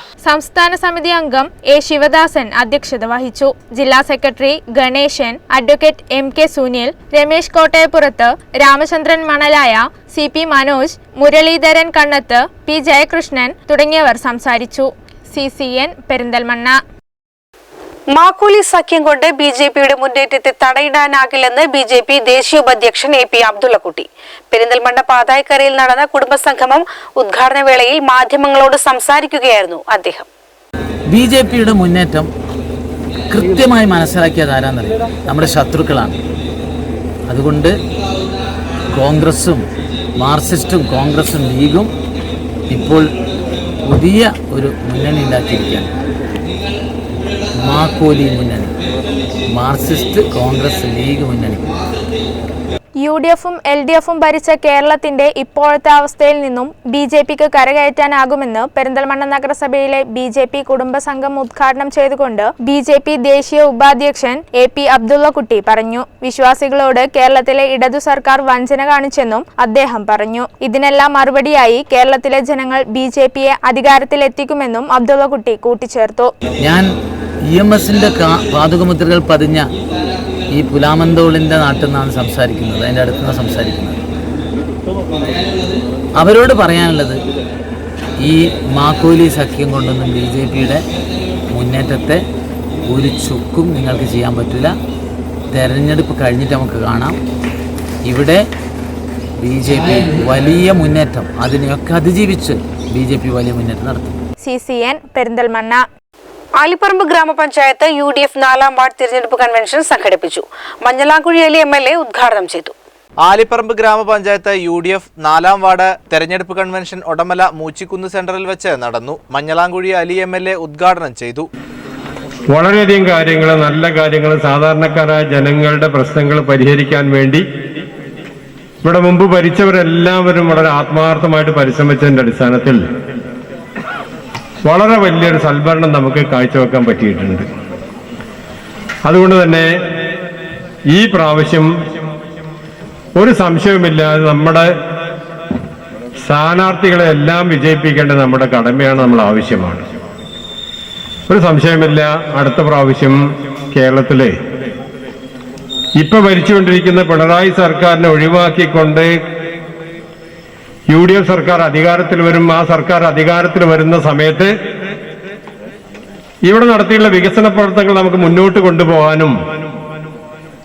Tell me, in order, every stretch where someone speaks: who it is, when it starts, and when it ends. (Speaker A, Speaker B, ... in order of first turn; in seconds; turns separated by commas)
Speaker A: 0.2-16.7, Speaker B: 18.1-30.3, Speaker C: 31.1-32.3, Speaker C: 33.3-36.1, Speaker C: 37.3-37.7, Speaker C: 38.9-39.6, Speaker C: 40.2-41.9, Speaker C: 42.7-43.1, Speaker C: 43.9-45.9, Speaker C: 47.6-48.7, Speaker C: 49.5-51.6, Speaker A: 53.0-76.3, Speaker C: 77.5-79.7, Speaker C: 80.5-84.0, Speaker C: 86.2-87.2, Speaker C: 88.2-90.8, Speaker C: 91.5-92.2, Speaker C: 92.9-94.7, Speaker C: 95.5-97.1, Speaker C: 98.1-98.5, Speaker C: 99.4-104.2, Speaker A: 104.4-105.8, Speaker B: 106.6-112.7, Speaker D: 113.2-121.5, Speaker E: 122.5-127.4, Speaker E: 128.8-132.8, Speaker E: 134.6-137.4, Speaker E: 139.1-139.7, Speaker E: 140.9-141.7, Speaker E: 143.2-144.7, Speaker E: 146.2-149.8, Speaker E: 151.3-153.2, Speaker E: 153.7-154.3, Speaker E: 156.0-159.1, Speaker E: 160.9-164.5, Speaker E: 166.4-169.3